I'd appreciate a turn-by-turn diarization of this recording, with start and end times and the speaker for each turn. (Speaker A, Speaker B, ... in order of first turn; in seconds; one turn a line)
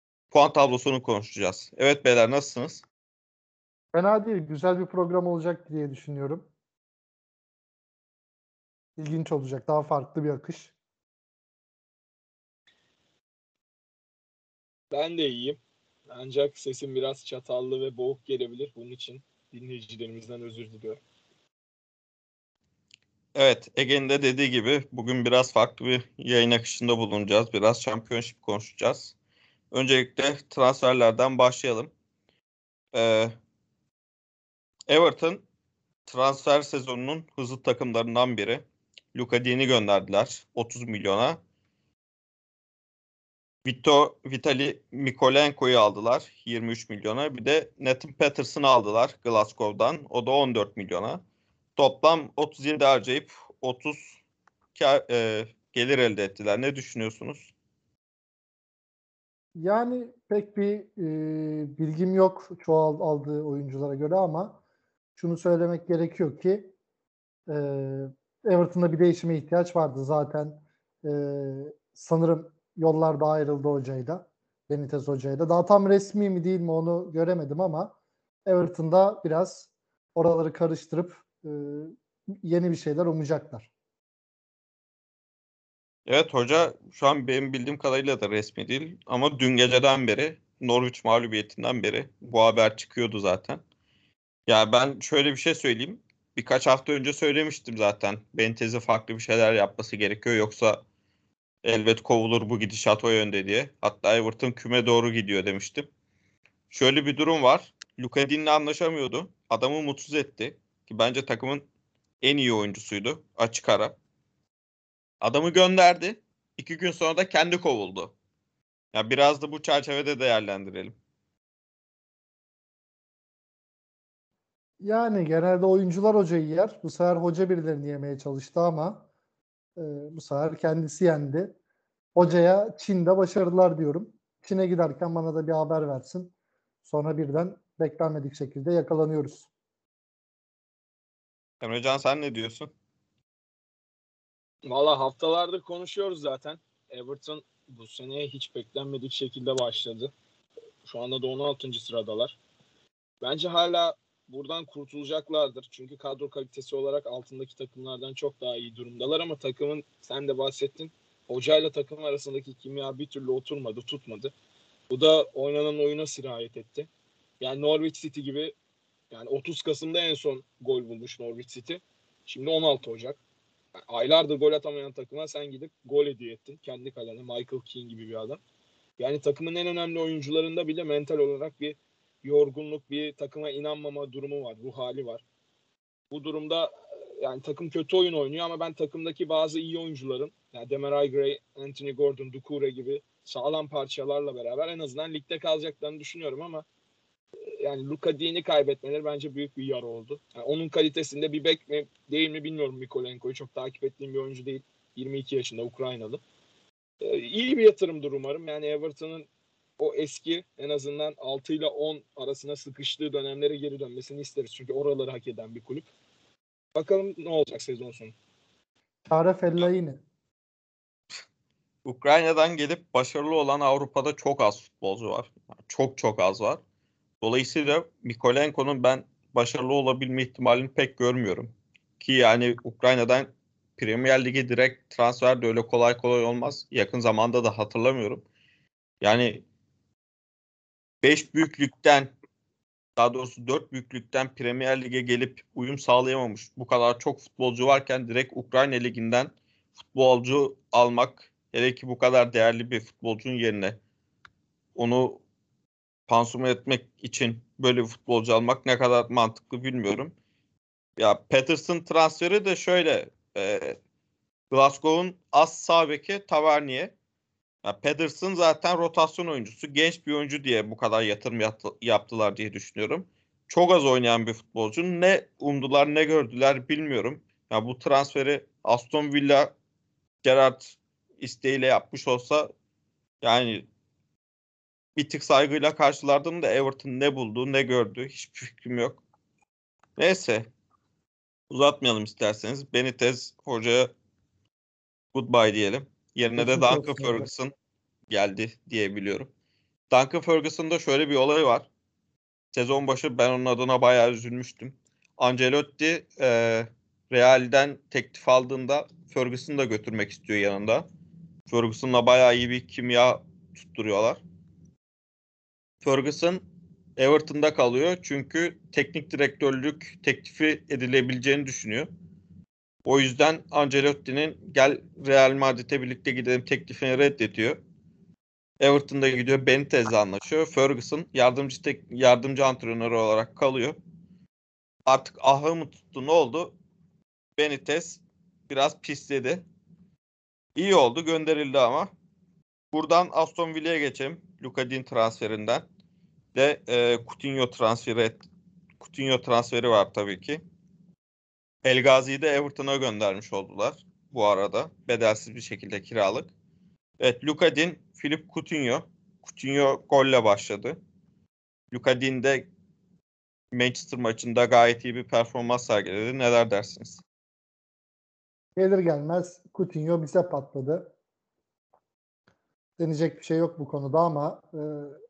Speaker A: 0.3-2.8
Speaker B: 3.9-6.5
Speaker B: 9.0-10.7
Speaker C: 14.9-15.6
Speaker C: 16.1-21.0
Speaker A: 23.3-29.1
Speaker A: 29.7-31.9
Speaker A: 32.9-33.3
Speaker A: 34.9-35.4
Speaker A: 36.0-41.4
Speaker A: 43.6-51.2
Speaker A: 51.8-54.2
Speaker A: 54.7-57.5
Speaker B: 59.6-64.6
Speaker B: 65.2-66.7
Speaker B: 67.5-83.7
Speaker A: 86.0-93.6
Speaker A: 94.5-100.8
Speaker A: 101.6-105.9
Speaker A: 106.7-111.7
Speaker A: 112.2-114.0
Speaker A: 115.2-118.1
Speaker A: 118.9-120.9
Speaker B: 124.8-129.1
Speaker B: 129.8-131.5
Speaker B: 132.1-136.3
Speaker B: 136.8-139.5
Speaker A: 141.6-142.7
Speaker C: 144.7-150.1
Speaker C: 150.8-152.4
Speaker C: 153.2-164.3
Speaker C: 164.9-166.9
Speaker C: 167.4-168.5
Speaker C: 169.1-173.2
Speaker C: 173.9-178.4
Speaker C: 179.0-185.2
Speaker C: 186.1-196.7
Speaker C: 197.5-206.2
Speaker C: 207.0-209.3
Speaker C: 209.8-215.9
Speaker C: 216.8-218.1
Speaker B: 219.1-220.0
Speaker A: 221.8-226.6
Speaker A: 227.2-238.2
Speaker A: 239.0-239.4
Speaker A: 241.0-242.1
Speaker A: 243.0-253.8
Speaker A: 254.8-255.2
Speaker A: 256.1-260.1
Speaker A: 261.0-263.8
Speaker A: 264.5-266.9
Speaker A: 267.6-279.5
Speaker A: 280.2-282.5
Speaker A: 283.2-283.6
Speaker A: 284.9-289.0
Speaker A: 290.0-290.5
Speaker A: 291.5-293.9
Speaker A: 295.1-297.5
Speaker B: 296.4-297.3
Speaker A: 298.1-299.3
Speaker A: 299.9-301.7
Speaker A: 302.5-310.9
Speaker A: 311.5-314.2
Speaker A: 315.8-316.4
Speaker A: 317.0-321.9
Speaker A: 322.9-327.6
Speaker A: 328.6-333.8
Speaker A: 334.9-336.5
Speaker A: 337.4-339.4
Speaker A: 340.5-341.9
Speaker A: 342.7-345.6
Speaker A: 346.3-348.2
Speaker A: 348.8-350.4
Speaker A: 351.6-356.3
Speaker A: 357.0-360.8
Speaker A: 361.7-362.5
Speaker A: 363.5-367.0
Speaker B: 368.6-370.9
Speaker B: 372.8-374.9